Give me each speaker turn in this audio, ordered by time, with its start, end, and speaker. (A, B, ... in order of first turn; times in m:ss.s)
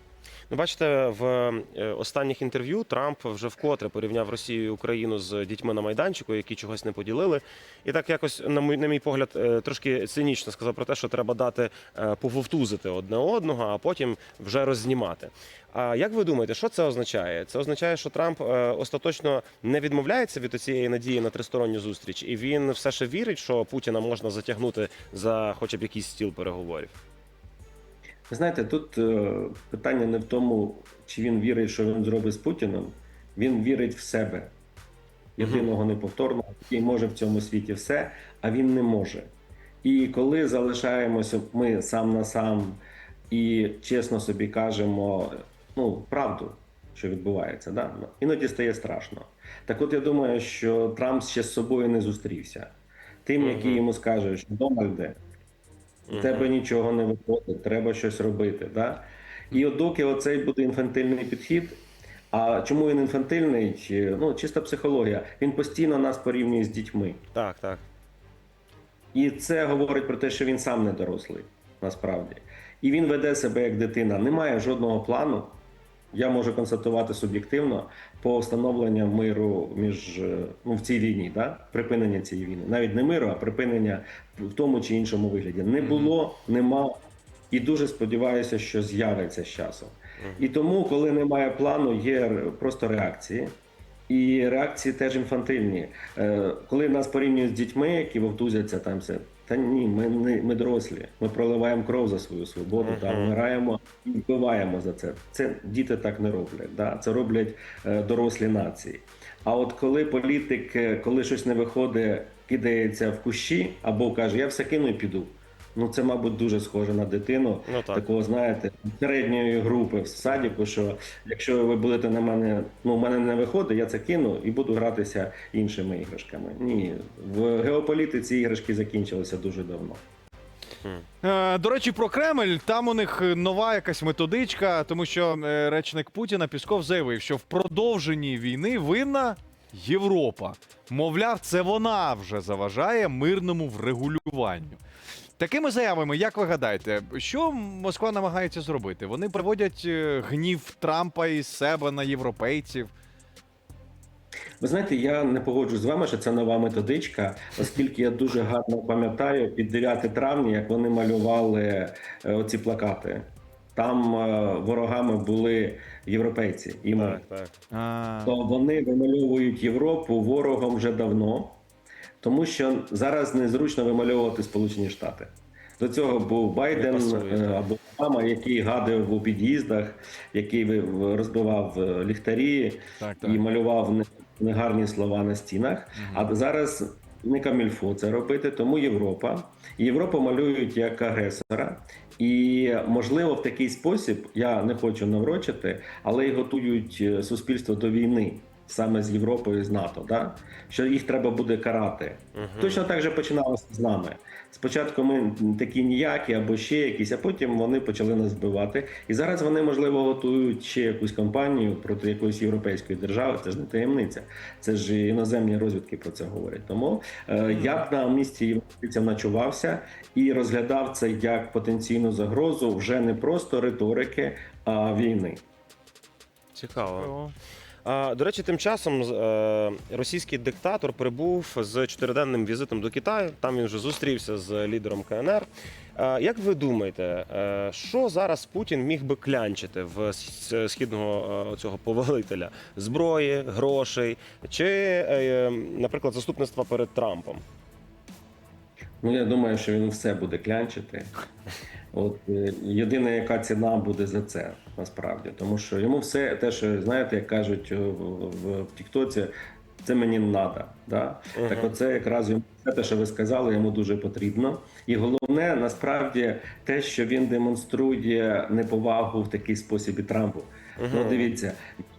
0:00.5-0:27.0 A
0:28.3-0:34.5 B
0:35.4-0:39.3 B
0:35.4-0:35.7 A
0:39.8-0:52.7 B
0:53.3-0:55.2 B
0:53.4-0:53.8 A
0:56.1-0:56.5 A
0:56.1-1:01.8 B
1:02.3-1:07.2 B
1:07.3-1:07.9 A
1:09.1-1:15.6 B
1:16.1-1:26.9 B
1:25.8-1:26.1 C
1:27.5-1:33.6 B
1:30.2-1:30.4 A
1:34.1-2:10.0 B
1:42.8-1:43.3 A
1:57.7-1:58.0 A
2:11.2-2:24.8 C
2:25.4-2:32.9 C
2:34.6-2:47.2 B
2:47.0-2:47.6 A
2:47.7-2:48.3 C
2:48.2-2:51.6 B
2:52.2-3:45.4 B
2:56.7-2:57.6 A
3:03.0-3:03.4 C
3:06.0-3:06.3 C
3:22.4-3:22.8 A
3:37.5-3:37.8 C
3:46.6-3:47.2 A
3:46.8-3:47.3 C
3:47.8-4:07.4 A
4:09.0-4:11.1 B
4:11.9-4:31.6 B
4:21.3-4:21.7 A
4:30.8-4:31.3 A